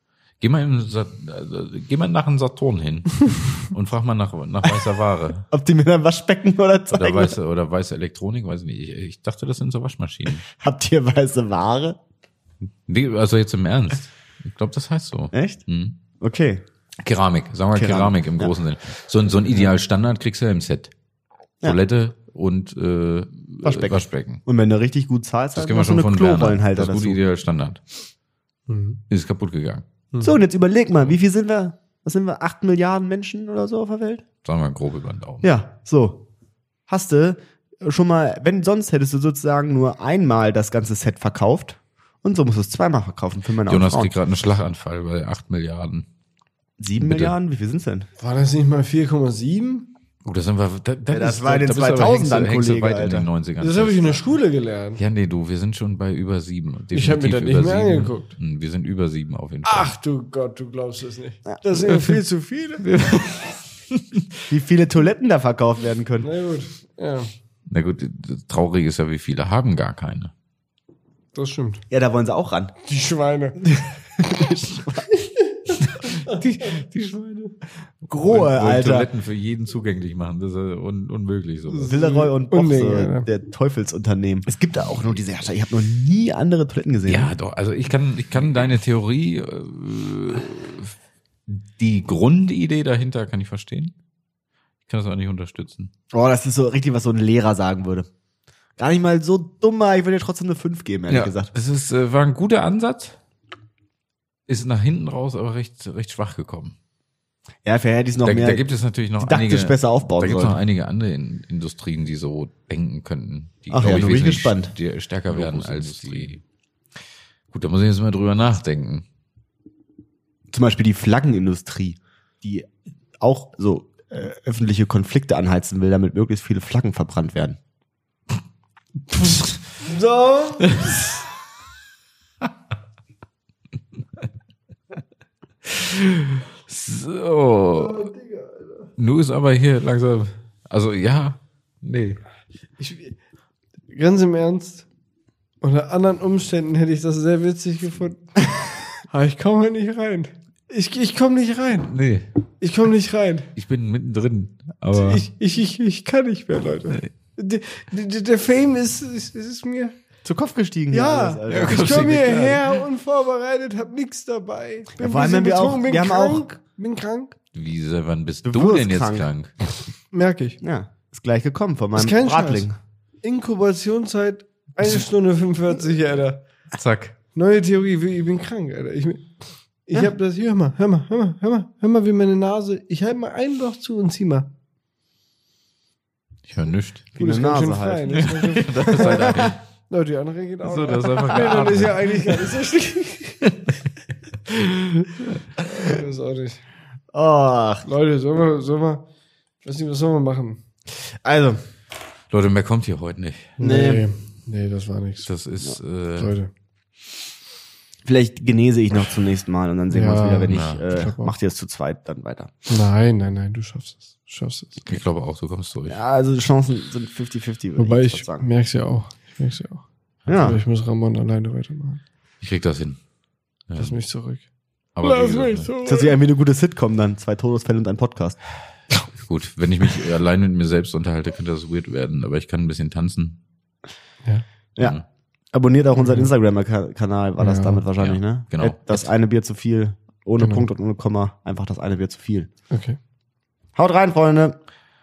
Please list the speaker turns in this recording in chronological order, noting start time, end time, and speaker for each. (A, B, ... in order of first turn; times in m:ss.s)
0:00.4-0:05.4 A
0:05.5-0:07.4 B
0:06.9-0:10.4 A
0:10.5-0:12.0 B
0:12.9-0:16.0 A
0:15.3-0:15.6 B
0:16.2-0:16.6 B
0:17.0-0:20.9 A
0:17.7-0:18.5 B
0:21.6-0:24.4 A
0:23.6-0:27.2 B
0:25.6-0:27.8 A
0:28.7-0:29.0 C
0:29.1-0:29.8 A
0:30.2-0:34.2 B
0:34.4-0:35.5 A
0:35.4-0:36.2 B
0:36.9-0:44.1 B
0:43.7-0:46.1 A
0:46.8-0:48.1 B
0:47.0-0:47.3 A
0:48.2-0:49.9 C
0:50.2-0:54.2 A
0:51.1-0:53.3 B
0:53.6-0:55.0 C
0:55.0-0:59.9 A
0:56.9-0:58.3 C
0:59.6-1:02.8 C
1:01.9-1:02.2 A
1:02.8-1:04.4 A
1:04.5-1:06.3 B
1:06.2-1:07.3 C
1:07.7-1:10.3 A
1:11.3-1:11.8 C
1:11.9-1:12.7 B
1:12.8-1:13.7 C
1:13.8-1:15.1 B
1:15.8-1:21.9 A
1:18.1-1:19.1 B
1:21.7-1:23.3 C
1:21.8-1:27.3 B
1:27.0-1:30.9 A
1:31.5-1:33.9 A
1:34.9-1:35.9 A
1:36.1-1:38.1 B
1:38.8-1:41.5 B
1:41.1-1:43.2 A
1:44.5-1:46.8 A
1:47.6-1:48.6 B
1:48.2-1:56.4 A
1:49.2-1:50.6 B
1:53.7-1:54.7 B
1:55.3-1:56.3 B
1:57.5-1:59.0 A
2:00.5-2:07.6 B
2:09.8-2:11.0 C
2:15.7-2:18.1 A
2:17.7-2:18.8 C
2:19.0-2:22.2 A
2:22.8-2:23.2 C
2:23.9-2:24.8 C
2:25.6-2:28.4 C
2:29.1-2:31.9 C
2:31.8-2:32.2 A
2:32.6-2:33.5 C
2:33.6-2:35.2 A
2:34.9-2:39.9 C
2:40.2-2:42.1 B
2:40.9-2:47.4 C
2:41.5-2:42.8 A
2:45.0-2:46.4 B
2:47.5-2:49.6 A
2:48.4-2:49.3 B
2:50.1-2:50.6 C
2:50.6-2:52.8 B
2:51.9-2:52.7 C
2:53.2-2:56.4 C
2:56.7-2:57.1 A
2:57.3-3:04.5 C
3:06.5-3:07.1 A
3:07.2-3:08.2 B
3:07.2-3:13.8 C
3:08.1-3:09.6 A
3:09.0-3:09.5 B
3:10.6-3:12.5 A
3:11.1-3:11.6 B
3:14.5-3:15.1 A
3:15.6-3:16.6 C
3:17.1-3:17.8 B
3:17.8-3:19.0 C
3:19.6-3:20.6 C
3:21.1-3:21.6 B
3:22.3-3:23.5 A
3:23.6-3:25.3 C
3:23.6-3:24.0 B
3:25.2-3:26.3 A
3:26.2-3:26.5 C
3:28.0-3:32.5 B
3:29.9-3:31.3 C
3:30.5-3:30.8 A
3:32.7-3:34.9 C
3:34.8-3:36.0 A
3:35.9-3:38.4 B
3:37.8-3:42.0 C
3:40.3-3:40.6 B
3:42.4-3:43.0 A
3:43.7-3:44.0 A
3:43.8-3:44.4 C
3:44.9-3:45.7 A
3:45.0-3:46.2 C
3:45.8-3:48.4 B
3:49.2-3:53.4 A
3:54.8-3:55.0 A
3:55.5-4:02.5 B
3:56.0-3:56.3 C
3:57.4-3:57.8 C
3:58.0-3:58.9 A
4:00.4-4:00.7 C
4:02.7-4:03.0 C
4:03.8-4:04.6 B